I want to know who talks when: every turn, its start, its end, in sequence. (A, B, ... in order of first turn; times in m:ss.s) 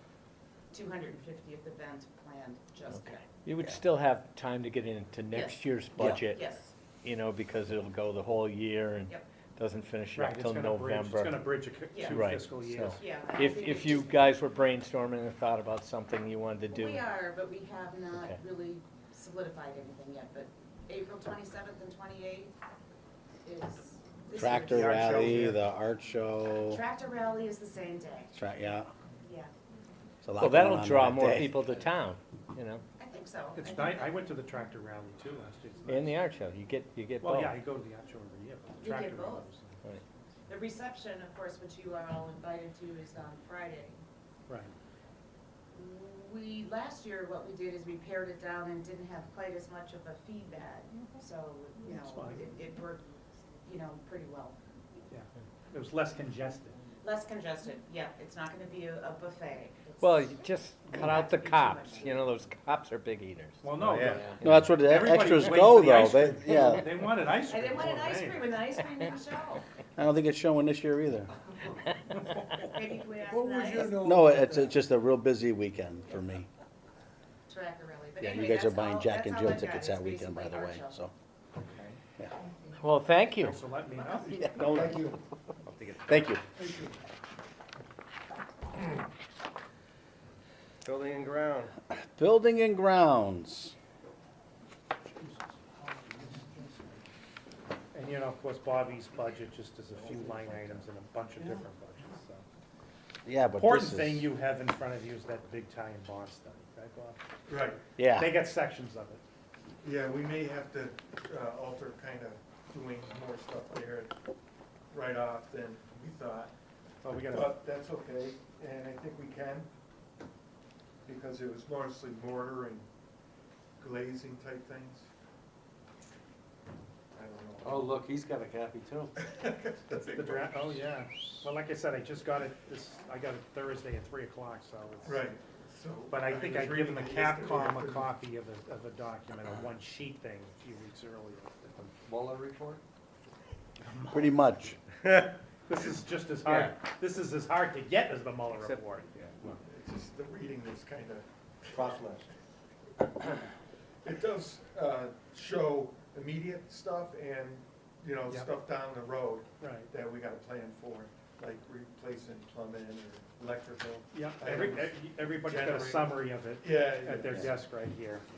0:00.7-0:03.2 A
0:02.9-0:11.6 B
0:05.3-0:06.7 A
0:06.0-0:06.2 C
0:10.2-0:13.0 D
0:11.9-0:12.3 A
0:12.1-0:17.0 B
0:13.0-0:14.2 A
0:16.7-0:22.5 A
0:23.4-0:25.5 A
0:24.4-0:26.8 C
0:24.7-0:25.6 E
0:26.7-0:28.4 A
0:28.4-0:28.9 C
0:29.2-0:29.5 A
0:30.2-0:31.6 C
0:30.4-0:32.8 B
0:33.0-0:34.2 A
0:33.6-0:36.2 D
0:35.9-0:37.6 B
0:37.2-0:39.8 D
0:38.8-0:39.5 A
0:40.5-0:44.0 A
0:44.5-0:44.7 D
0:45.7-0:53.1 A
0:51.8-0:52.4 D
0:53.6-0:54.6 A
0:55.1-0:56.8 D
0:57.0-1:02.2 A
1:00.0-1:04.8 B
1:03.6-1:08.5 D
1:04.0-1:04.4 F
1:04.4-1:07.1 C
1:07.5-1:09.6 A
1:10.0-1:11.3 C
1:12.4-1:14.0 A
1:13.4-1:14.6 F
1:13.8-1:16.5 C
1:17.5-1:21.0 A
1:18.2-1:21.1 C
1:21.6-1:22.0 D
1:22.8-1:23.6 B
1:23.4-1:25.0 D
1:24.4-1:25.2 E
1:25.7-1:26.9 D
1:26.1-1:26.4 C
1:30.8-1:31.7 F
1:31.9-1:33.7 C
1:36.1-1:36.6 F
1:37.9-1:42.4 D
1:40.0-1:40.8 F
1:43.2-1:44.3 C
1:43.6-1:47.2 D
1:47.5-1:47.8 E
1:48.0-1:48.4 C
1:48.0-1:49.2 D
1:49.8-1:54.2 E
1:54.9-1:56.5 E
1:57.0-1:57.6 D
1:57.3-1:59.7 E
2:01.1-2:02.9 E
2:03.8-2:05.1 E
2:07.1-2:08.0 E
2:07.6-2:09.2 F
2:09.2-2:11.0 E
2:10.1-2:15.3 D
2:15.0-2:18.2 E
2:16.1-2:21.9 D
2:22.1-2:22.8 F
2:24.0-2:24.8 C
2:25.0-2:25.3 F
2:25.7-2:29.1 D
2:26.5-2:26.7 F
2:28.5-2:29.5 F
2:29.6-2:32.1 E
2:31.7-2:32.2 F
2:34.0-2:47.6 E
2:39.6-2:39.9 D
2:44.1-2:48.2 D